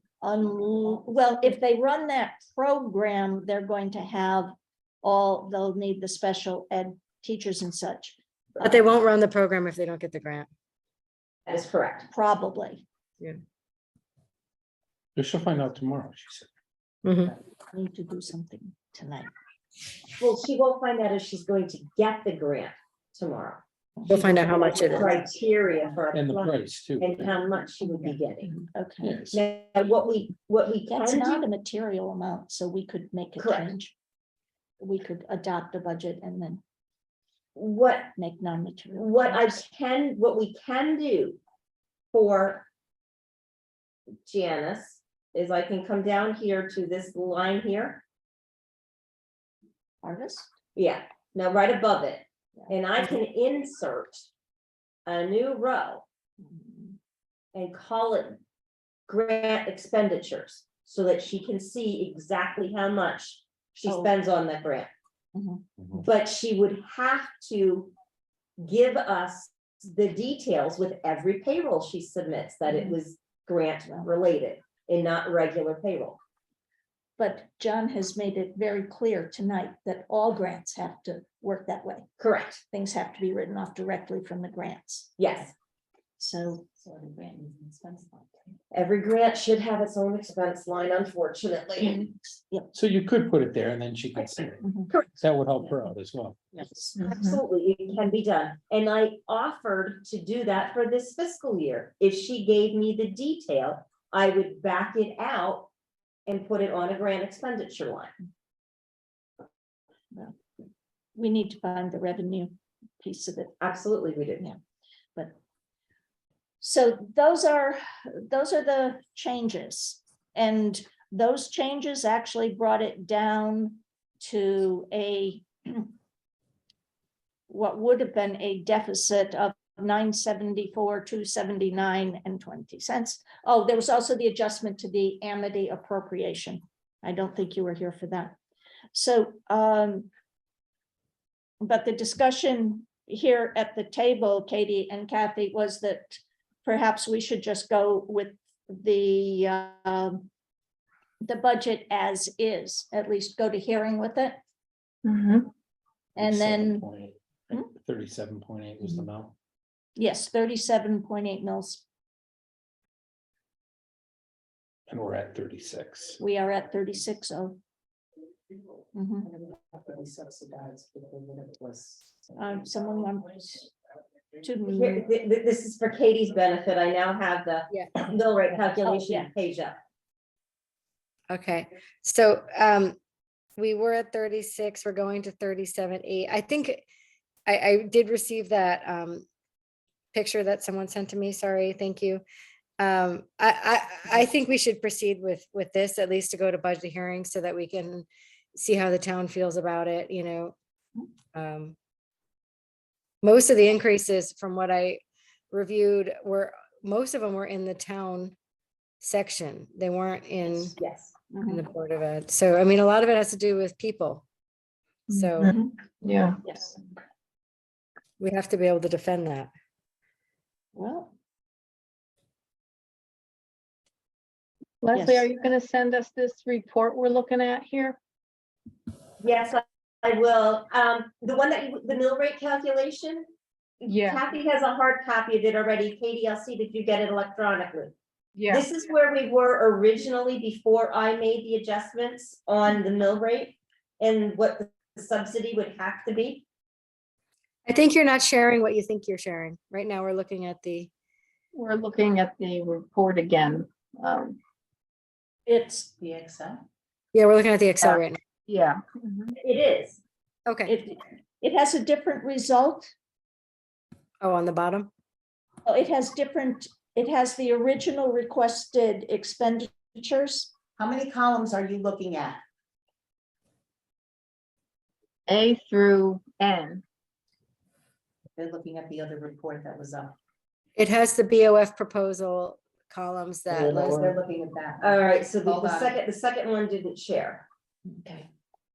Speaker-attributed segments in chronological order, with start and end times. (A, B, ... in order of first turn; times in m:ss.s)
0:00.2-0:08.2 A
0:08.6-0:10.5 B
0:11.4-0:12.1 C
0:12.1-0:12.8 A
0:15.2-0:16.5 D
0:17.0-0:17.3 B
0:17.7-0:19.3 A
0:20.2-0:23.6 C
0:24.0-0:25.0 A
0:24.1-0:25.1 B
0:24.9-0:28.5 C
0:26.1-0:27.3 D
0:27.8-0:29.2 A
0:29.0-0:29.4 D
0:29.3-0:31.4 C
0:30.9-0:33.9 A
0:33.4-0:33.7 C
0:34.8-0:36.6 A
0:37.5-0:38.1 C
0:38.2-0:39.6 A
0:38.9-0:41.4 C
0:42.1-0:42.7 C
0:44.2-0:48.0 C
0:50.0-0:50.5 A
0:50.7-0:54.3 C
0:55.0-0:56.0 C
0:56.4-0:57.0 A
0:57.5-0:58.4 C
0:59.1-1:04.9 C
1:03.9-1:04.1 A
1:05.3-1:05.6 A
1:05.9-1:07.9 C
1:08.6-1:16.2 C
1:12.7-1:13.0 A
1:17.2-1:22.1 A
1:22.2-1:22.6 C
1:22.7-1:25.5 A
1:25.2-1:25.5 C
1:26.2-1:26.7 A
1:26.8-1:28.5 E
1:28.7-1:32.0 C
1:32.7-1:36.4 D
1:34.6-1:34.9 A
1:34.9-1:35.7 C
1:36.5-1:37.0 A
1:37.0-1:37.4 F
1:37.1-1:45.7 C
1:46.3-1:48.1 C
1:50.1-1:50.4 A
1:51.2-1:53.5 A
1:53.6-1:54.4 C
1:56.6-2:05.9 A
2:07.5-2:18.4 A
2:18.9-2:20.1 A
2:21.6-2:30.3 A
2:31.2-2:34.4 A
2:35.0-2:35.5 F
2:36.2-2:36.9 A
2:36.2-2:39.3 D
2:40.0-2:41.8 A
2:44.9-2:46.2 D
2:46.2-2:47.6 A
2:48.9-2:49.3 A
2:49.2-2:52.1 E
2:52.4-2:53.7 A
2:54.4-2:55.0 A
2:54.7-2:59.8 C
2:58.8-2:59.3 A
3:01.3-3:03.0 B
3:03.6-3:06.8 B
3:07.4-3:09.2 B
3:10.1-3:12.2 B
3:12.8-3:20.5 B
3:21.3-3:21.7 B
3:23.2-3:28.3 B
3:29.0-3:30.8 B
3:30.8-3:31.1 C
3:31.3-3:31.6 A
3:31.5-3:34.2 B
3:35.1-3:36.4 F
3:35.1-3:35.5 B
3:36.4-3:36.8 A
3:38.2-3:39.5 B
3:40.7-3:41.1 A
3:44.8-3:48.0 F
3:44.9-3:45.3 A
3:49.2-3:53.3 C
3:53.8-3:57.9 C
3:53.9-3:54.2 F
3:58.4-3:58.7 F
3:58.5-4:06.4 C
4:07.6-4:10.9 B
4:11.5-4:14.4 F
4:15.4-4:15.9 A
4:16.0-4:16.6 E
4:17.1-4:18.2 B
4:17.8-4:19.3 F
4:19.4-4:20.0 C
4:20.5-4:20.7 B
4:20.6-4:22.9 A
4:24.2-4:24.9 B
4:25.6-4:30.5 A
4:30.8-4:32.4 E
4:35.3-4:36.8 F
4:38.4-4:40.2 E
4:40.8-4:44.1 B
4:43.5-4:46.0 E
4:44.8-4:47.5 C
4:47.8-4:48.3 A